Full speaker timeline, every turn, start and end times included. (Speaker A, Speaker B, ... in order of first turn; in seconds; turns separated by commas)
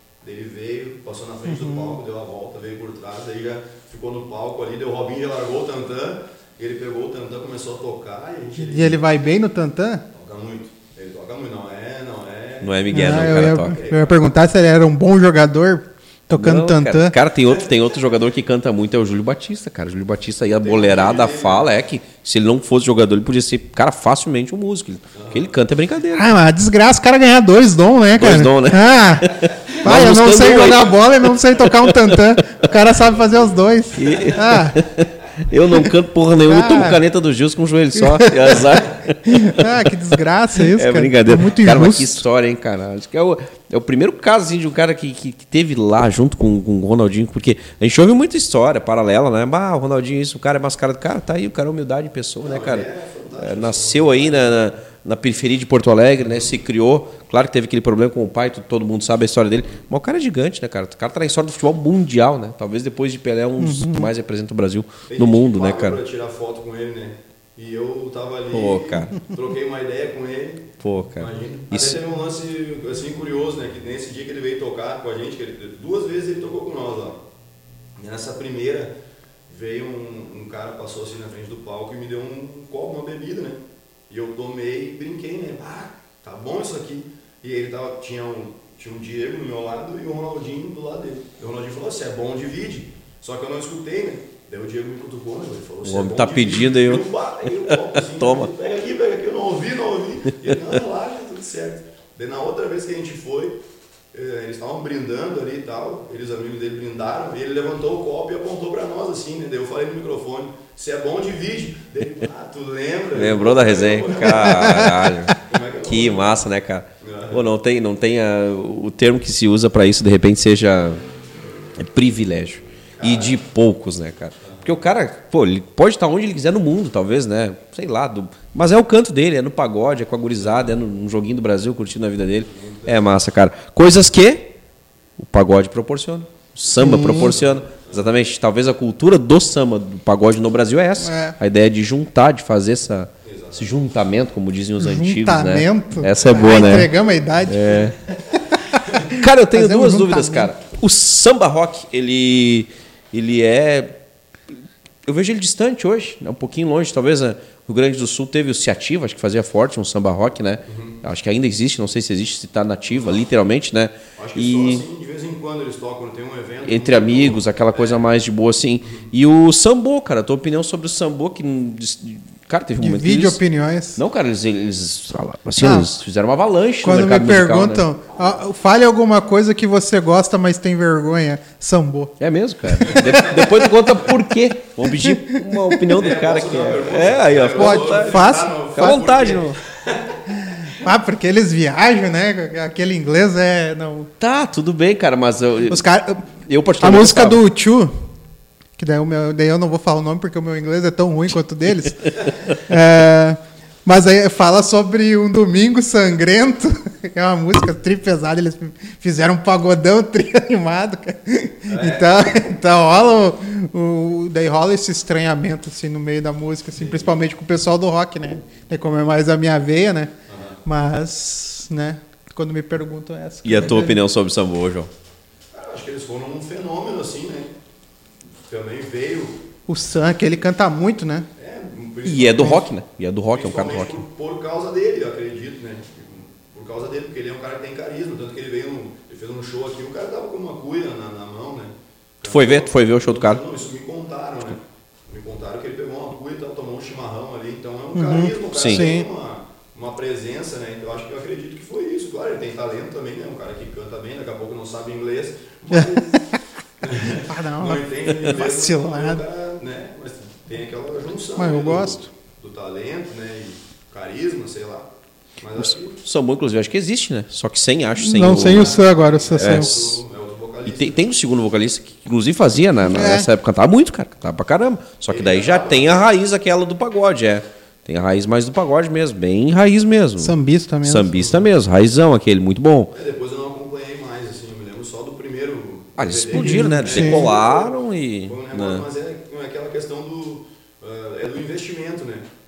Speaker A: 0.2-9.0, Speaker B: 1.5-1.9, Speaker B: 8.6-10.0, Speaker A: 10.1-14.2, Speaker C: 12.6-13.8, Speaker B: 12.9-17.1, Speaker C: 16.4-26.3, Speaker A: 20.5-21.7, Speaker A: 25.1-25.5, Speaker B: 26.1-34.8, Speaker C: 28.1-31.1, Speaker C: 31.6-32.6, Speaker A: 32.7-34.4, Speaker C: 33.9-39.9, Speaker B: 36.5-37.0, Speaker B: 38.0-38.7, Speaker B: 39.2-42.2, Speaker C: 40.5-66.0, Speaker A: 52.4-54.7, Speaker B: 63.6-64.1, Speaker A: 65.1-77.2, Speaker C: 68.5-69.1, Speaker C: 70.8-72.0, Speaker A: 78.0-78.9, Speaker A: 79.5-103.6, Speaker C: 95.8-97.1, Speaker C: 97.6-98.5, Speaker A: 104.1-116.4, Speaker C: 113.1-115.3, Speaker B: 114.3-115.4, Speaker C: 115.8-121.0, Speaker A: 117.0-117.4, Speaker C: 121.8-134.5, Speaker A: 123.0-123.4, Speaker A: 124.4-124.7, Speaker A: 130.4-130.7, Speaker A: 132.4-133.1, Speaker C: 135.2-146.9, Speaker B: 136.8-137.3, Speaker A: 136.8-138.1, Speaker B: 141.0-141.4, Speaker A: 143.2-143.8, Speaker B: 144.8-147.9, Speaker C: 147.4-147.9, Speaker B: 148.5-150.5, Speaker C: 149.1-153.9, Speaker C: 155.1-164.8, Speaker A: 160.7-161.0, Speaker A: 164.2-168.1, Speaker C: 166.6-173.4, Speaker A: 168.8-169.1, Speaker B: 172.8-174.0, Speaker C: 173.9-177.9, Speaker B: 175.6-175.9, Speaker B: 176.8-182.1, Speaker C: 182.2-189.6, Speaker B: 182.8-183.6, Speaker A: 182.8-183.9, Speaker B: 184.9-185.8, Speaker A: 185.9-190.7, Speaker B: 187.6-188.9, Speaker B: 190.7-194.1, Speaker C: 194.2-197.4, Speaker B: 195.7-196.3, Speaker B: 196.8-197.9, Speaker B: 198.8-220.1, Speaker A: 211.7-212.4, Speaker A: 216.8-217.2, Speaker A: 220.3-220.6, Speaker B: 220.6-224.0, Speaker C: 223.4-224.9, Speaker A: 225.5-227.5, Speaker A: 228.5-229.4, Speaker B: 229.7-231.3, Speaker A: 231.4-232.6, Speaker C: 232.0-234.0, Speaker A: 233.3-256.2, Speaker C: 242.3-243.4, Speaker B: 247.9-249.1, Speaker C: 248.5-248.9, Speaker B: 255.7-256.2, Speaker A: 256.8-264.9, Speaker B: 257.3-259.2, Speaker B: 261.4-262.1, Speaker A: 265.4-266.0, Speaker C: 265.6-269.9, Speaker B: 267.9-270.0, Speaker A: 268.2-271.0, Speaker C: 270.6-282.9, Speaker B: 272.8-273.3, Speaker A: 275.1-276.0, Speaker B: 280.2-281.1, Speaker A: 281.0-281.5, Speaker A: 282.9-292.3, Speaker C: 286.0-288.8, Speaker B: 286.3-287.3